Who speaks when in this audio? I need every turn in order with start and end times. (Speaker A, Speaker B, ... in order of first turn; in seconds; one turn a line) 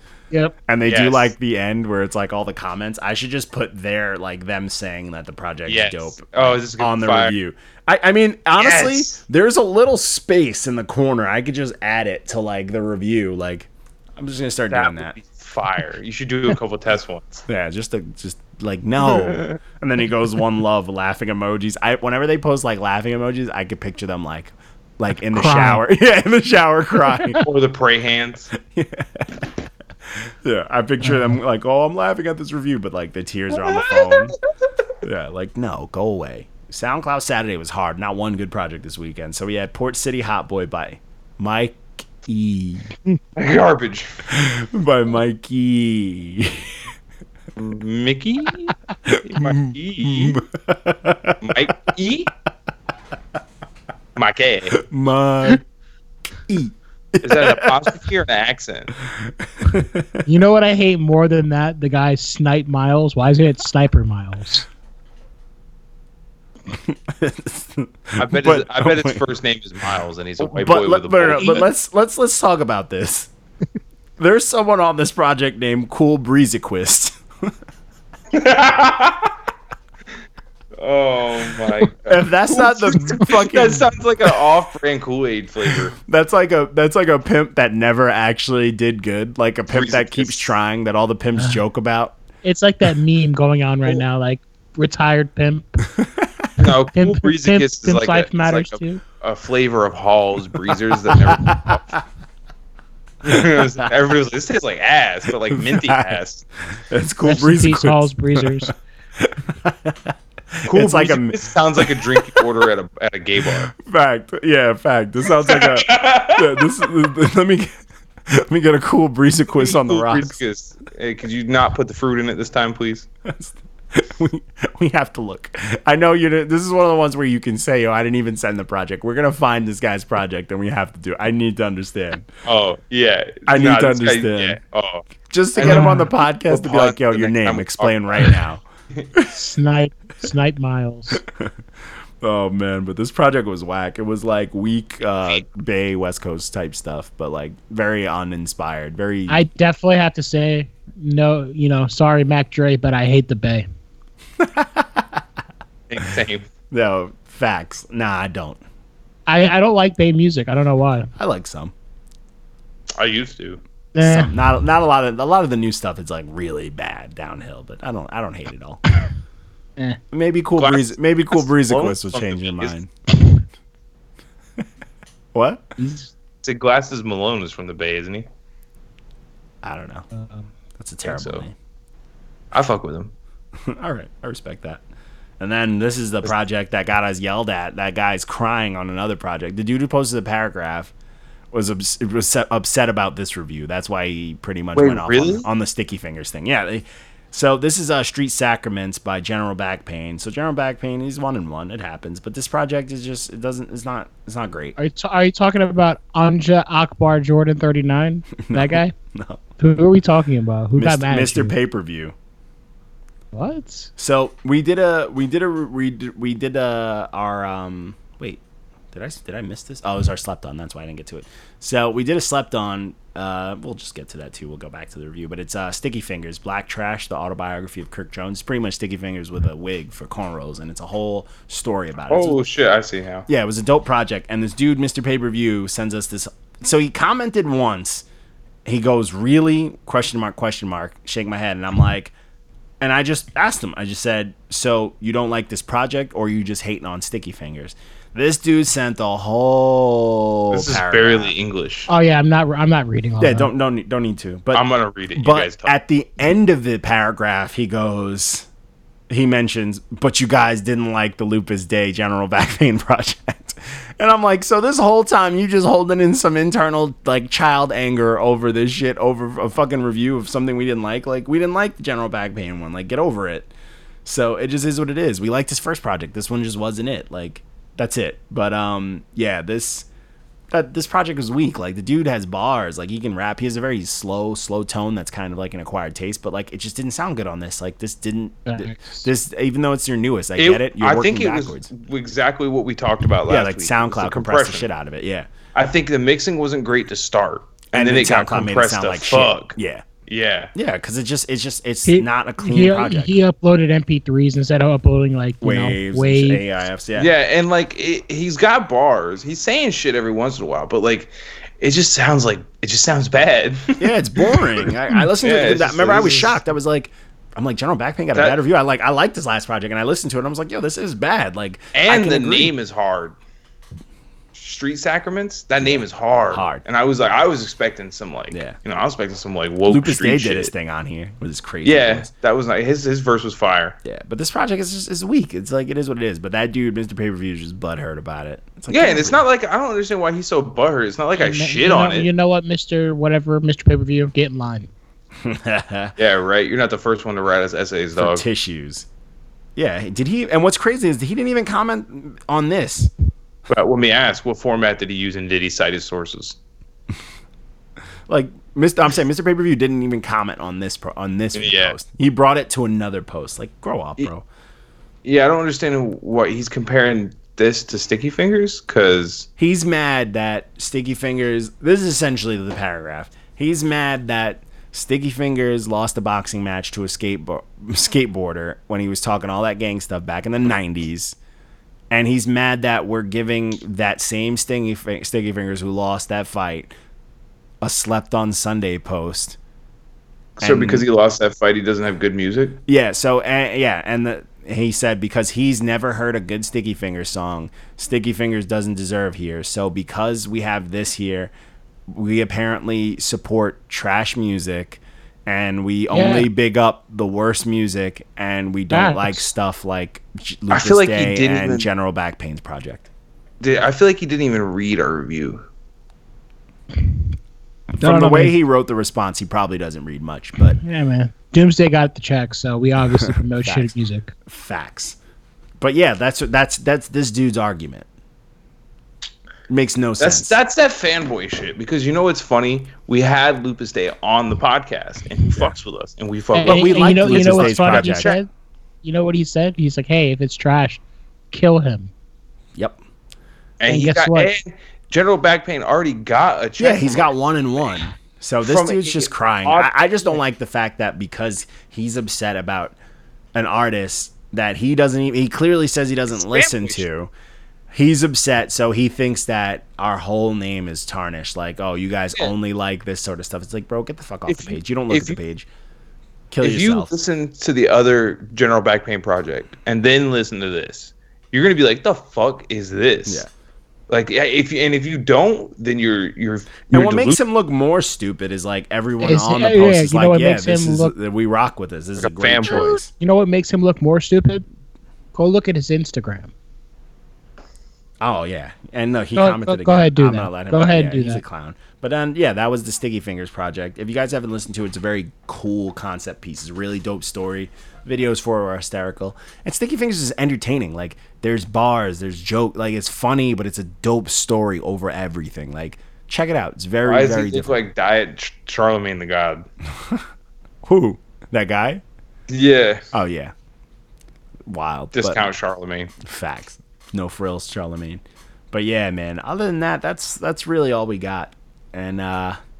Speaker A: 0.3-0.6
Speaker B: 0.7-15.1
Speaker C: 0.8-1.3
Speaker C: 5.7-7.3
Speaker C: 8.6-9.2
Speaker C: 14.7-17.4
Speaker B: 17.5-27.4
Speaker C: 19.1-19.6
Speaker A: 25.3-25.8
Speaker C: 27.4-28.5
Speaker B: 28.6-29.5
Speaker B: 30.1-34.3
Speaker A: 31.0-31.4
Speaker C: 33.5-34.4
Speaker B: 35.0-43.0
Speaker C: 43.4-44.2
Speaker B: 44.3-46.8
Speaker C: 47.5-50.4
Speaker B: 49.1-51.7
Speaker C: 51.4-52.3
Speaker C: 54.1-54.8
Speaker B: 54.7-55.6
Speaker B: 56.5-58.0
Speaker C: 57.2-58.9
Speaker B: 59.2-60.3
Speaker A: 60.2-64.7
Speaker B: 66.7-69.2
Speaker C: 68.2-71.7
Speaker B: 70.4-73.3
Speaker B: 74.2-77.5
Speaker C: 78.3-79.3
Speaker C: 80.8-86.0
Speaker B: 82.0-84.4
Speaker B: 85.7-92.2
Speaker C: 89.7-90.5
Speaker A: 92.4-95.8
Speaker B: 95.9-96.4
Speaker C: 96.6-102.0
Speaker A: 96.6-99.0
Speaker B: 101.1-101.8
Speaker C: 103.2-106.4
Speaker B: 105.5-106.2
Speaker B: 106.9-112.6
Speaker A: 107.2-108.7
Speaker C: 110.6-113.7
Speaker B: 113.5-120.3
Speaker C: 115.5-116.7
Speaker C: 119.6-123.1
Speaker B: 123.2-132.3
Speaker C: 132.4-138.4
Speaker B: 133.5-134.6
Speaker B: 135.3-138.6
Speaker A: 135.6-136.1
Speaker A: 139.2-141.2
Speaker B: 141.2-141.5
Speaker B: 142.2-149.4
Speaker A: 149.3-153.7
Speaker B: 154.4-155.2
Speaker C: 155.9-156.4
Speaker B: 156.7-158.6
Speaker A: 159.3-161.1
Speaker B: 161.2-161.7
Speaker C: 163.0-163.6
Speaker A: 163.9-164.3
Speaker B: 164.0-168.8
Speaker B: 170.1-172.9
Speaker C: 170.6-172.7
Speaker B: 175.3-175.7
Speaker A: 175.8-176.1
Speaker C: 176.4-178.2
Speaker B: 179.6-180.1
Speaker A: 180.1-180.5
Speaker B: 180.8-181.5
Speaker C: 181.0-181.4
Speaker C: 182.5-183.1
Speaker B: 183.6-184.8
Speaker B: 185.4-190.9
Speaker B: 191.5-204.8
Speaker C: 194.7-195.5
Speaker A: 204.8-208.9
Speaker B: 208.4-209.4
Speaker A: 209.6-211.5
Speaker B: 210.8-212.1
Speaker A: 213.3-213.9
Speaker B: 214.0-218.4
Speaker B: 218.9-232.4
Speaker C: 232.1-233.3
Speaker B: 233.3-238.0
Speaker B: 238.6-242.1
Speaker B: 242.8-251.3
Speaker C: 250.5-251.9
Speaker A: 251.9-253.5
Speaker B: 253.2-258.5
Speaker C: 254.5-255.7
Speaker B: 259.1-273.5
Speaker B: 274.0-279.9
Speaker B: 280.5-291.7
Speaker A: 288.4-289.1
Speaker C: 290.4-294.6
Speaker B: 293.3-295.3
Speaker C: 295.5-299.5
Speaker B: 297.7-299.9
Speaker C: 300.1-300.5
Speaker B: 300.5-303.1
Speaker A: 301.9-306.4
Speaker B: 305.4-307.1
Speaker C: 306.9-316.4
Speaker B: 313.8-322.5
Speaker C: 318.1-318.4
Speaker C: 321.7-323.1
Speaker C: 324.3-330.5
Speaker B: 325.6-326.6
Speaker B: 328.3-328.6
Speaker B: 329.7-332.1
Speaker C: 331.6-333.8
Speaker B: 333.8-339.2
Speaker C: 338.7-342.1
Speaker A: 341.2-344.7
Speaker B: 345.2-345.9
Speaker C: 346.0-348.2
Speaker B: 347.9-348.9
Speaker B: 349.6-352.9
Speaker C: 353.5-356.4
Speaker B: 358.1-364.2
Speaker C: 361.3-361.8
Speaker C: 365.0-369.3
Speaker B: 369.4-381.1
Speaker B: 381.9-386.7
Speaker B: 387.6-389.4
Speaker C: 390.4-392.6
Speaker B: 390.4-390.9
Speaker B: 392.7-401.3
Speaker B: 401.9-412.9
Speaker A: 405.9-406.3
Speaker A: 408.7-409.2
Speaker C: 410.5-411.7
Speaker C: 413.4-415.4
Speaker B: 417.8-420.6
Speaker A: 417.8-418.3
Speaker A: 420.6-424.1
Speaker B: 422.9-423.7
Speaker B: 424.2-425.0
Speaker B: 425.6-427.9
Speaker B: 429.5-430.4
Speaker C: 430.0-438.2
Speaker A: 436.3-438.3
Speaker B: 436.4-438.1
Speaker A: 438.8-441.9
Speaker C: 443.6-447.1
Speaker A: 443.6-444.3
Speaker B: 446.6-452.8
Speaker C: 448.4-450.2
Speaker B: 453.3-457.1
Speaker C: 456.1-456.8
Speaker B: 457.7-465.5
Speaker C: 464.3-465.2
Speaker B: 466.3-466.9
Speaker C: 466.4-473.2
Speaker C: 473.9-477.2
Speaker B: 476.7-482.9
Speaker A: 479.0-480.9
Speaker C: 482.0-482.8
Speaker A: 482.5-484.4
Speaker A: 485.1-486.3
Speaker B: 488.0-507.6
Speaker A: 489.1-491.2
Speaker C: 506.8-509.4
Speaker B: 509.7-510.1
Speaker B: 510.6-511.8
Speaker C: 512.3-512.9
Speaker B: 512.9-513.3
Speaker B: 514.5-515.2
Speaker C: 514.9-515.9
Speaker B: 516.0-522.4